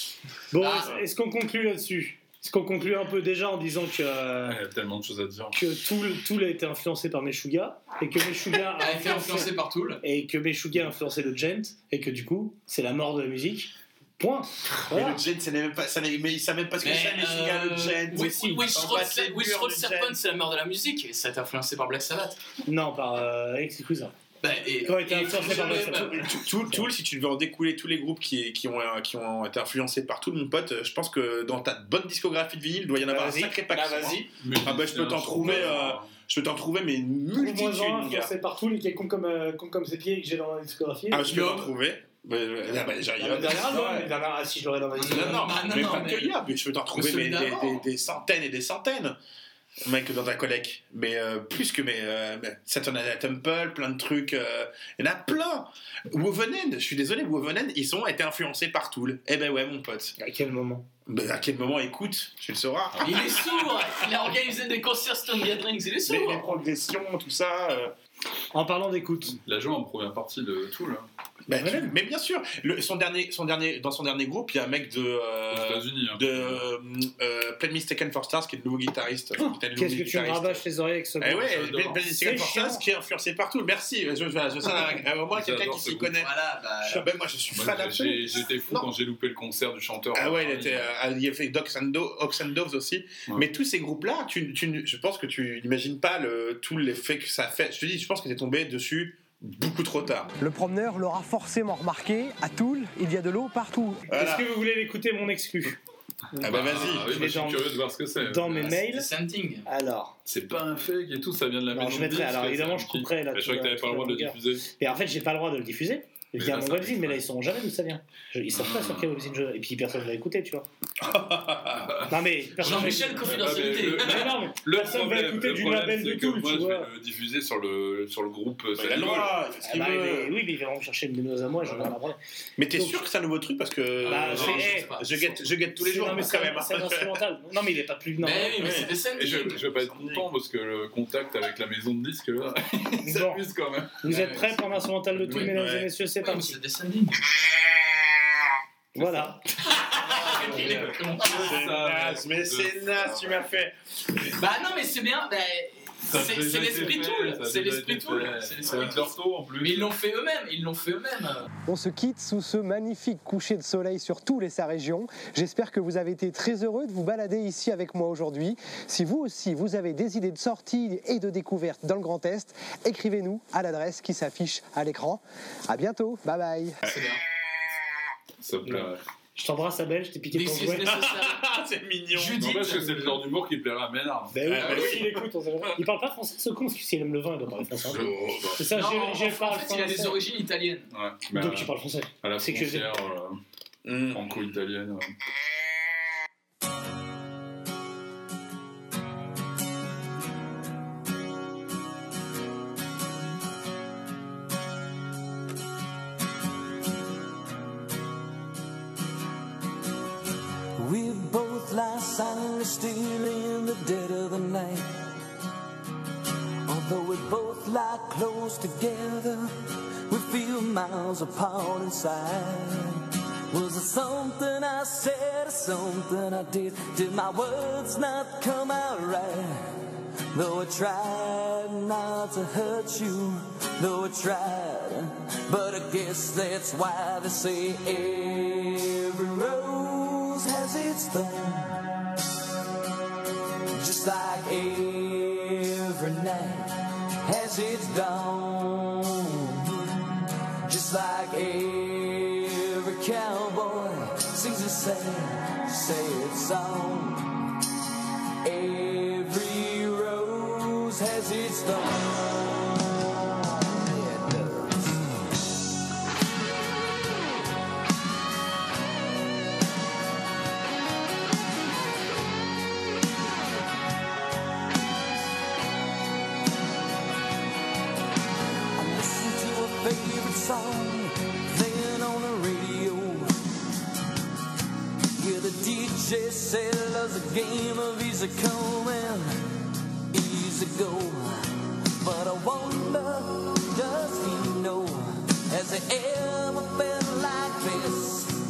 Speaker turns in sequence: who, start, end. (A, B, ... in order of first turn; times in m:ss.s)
0:00.5-0:04.6 A
0:00.6-0:01.0 B
0:04.4-0:05.6 C
0:05.5-0:09.5 A
0:08.8-0:10.0 B
0:10.0-0:15.2 A
0:14.9-0:20.2 D
0:16.8-0:22.4 B
0:18.1-0:18.7 A
0:22.7-0:24.1 A
0:24.4-0:26.3 B
0:24.8-0:26.9 A
0:25.4-0:38.3 D
0:33.1-0:34.3 A
0:34.4-0:36.2 C
0:37.3-0:41.6 A
0:41.1-0:44.2 D
0:43.2-0:45.6 A
0:45.0-0:46.4 B
0:45.1-0:49.2 D
0:46.9-0:47.8 B
0:49.8-1:00.2 D
1:00.2-1:00.8 A
1:01.1-1:03.4 D
1:03.0-1:06.5 B
1:06.1-1:07.9 D
1:08.5-1:09.4 A
1:09.4-1:11.1 C
1:11.5-1:20.6 D
1:11.6-1:12.0 A
1:15.5-1:16.6 C
1:19.4-1:22.8 A
1:21.2-1:26.3 D
1:21.5-1:22.0 C
1:25.3-1:26.1 C
1:26.2-1:27.0 B
1:26.9-1:28.9 D
1:27.5-1:30.9 C
1:30.1-1:40.3 D
1:40.4-1:44.0 E
1:44.1-1:44.4 D
1:44.1-1:45.8 A
1:46.3-1:49.1 A
1:46.4-1:47.1 D
1:46.5-1:48.8 C
1:48.5-1:49.7 B
1:49.7-1:50.2 A
1:50.3-1:54.6 C
1:51.7-2:00.7 A
1:56.4-1:57.2 C
1:58.6-1:59.2 C
2:01.0-2:01.9 D
2:01.8-2:09.4 C
2:02.1-2:03.3 A
2:02.6-2:04.3 B
2:04.0-2:06.9 A
2:08.8-2:10.3 D
2:09.6-2:12.2 A
2:11.6-2:12.0 C
2:12.6-2:17.2 D
2:12.7-2:13.0 A
2:14.0-2:15.4 B
2:14.1-2:14.9 A
2:14.2-2:14.6 C
2:15.8-2:18.8 A
2:18.2-2:19.6 B
2:18.6-2:19.0 D
2:19.1-2:24.1 C
2:19.6-2:20.3 D
2:23.0-2:23.4 A
2:24.0-2:26.6 A
2:24.1-2:24.6 B
2:25.3-2:25.9 D
2:26.2-2:27.3 B
2:29.0-2:33.7 D
2:29.0-2:29.4 A
2:29.7-2:31.6 B
2:30.2-2:33.5 C
2:34.4-2:41.5 B
2:36.1-2:39.9 C
2:41.7-2:56.8 E
2:56.8-2:57.2 D
2:56.8-2:57.2 B
2:58.4-2:59.0 C
2:59.4-3:01.0 A
3:00.3-3:01.4 B
3:00.8-3:02.5 D
3:02.1-3:03.2 B
3:02.4-3:04.4 C
3:04.3-3:10.2 A
3:04.4-3:05.2 D
3:04.6-3:05.0 B
3:07.8-3:08.7 C
3:08.7-3:10.9 B
3:10.9-3:13.4 C
3:11.3-3:12.9 A
3:13.8-3:14.2 D
3:14.1-3:15.2 C
3:30.8-3:34.9 F
3:36.7-3:39.5 F
3:40.1-4:01.9 F
4:03.8-4:09.5 F
4:10.7-4:17.2 F
4:18.4-4:22.8 F
4:23.7-4:25.0 F
4:38.8-4:43.3 F
4:45.2-4:49.4 F
4:50.1-4:58.3 F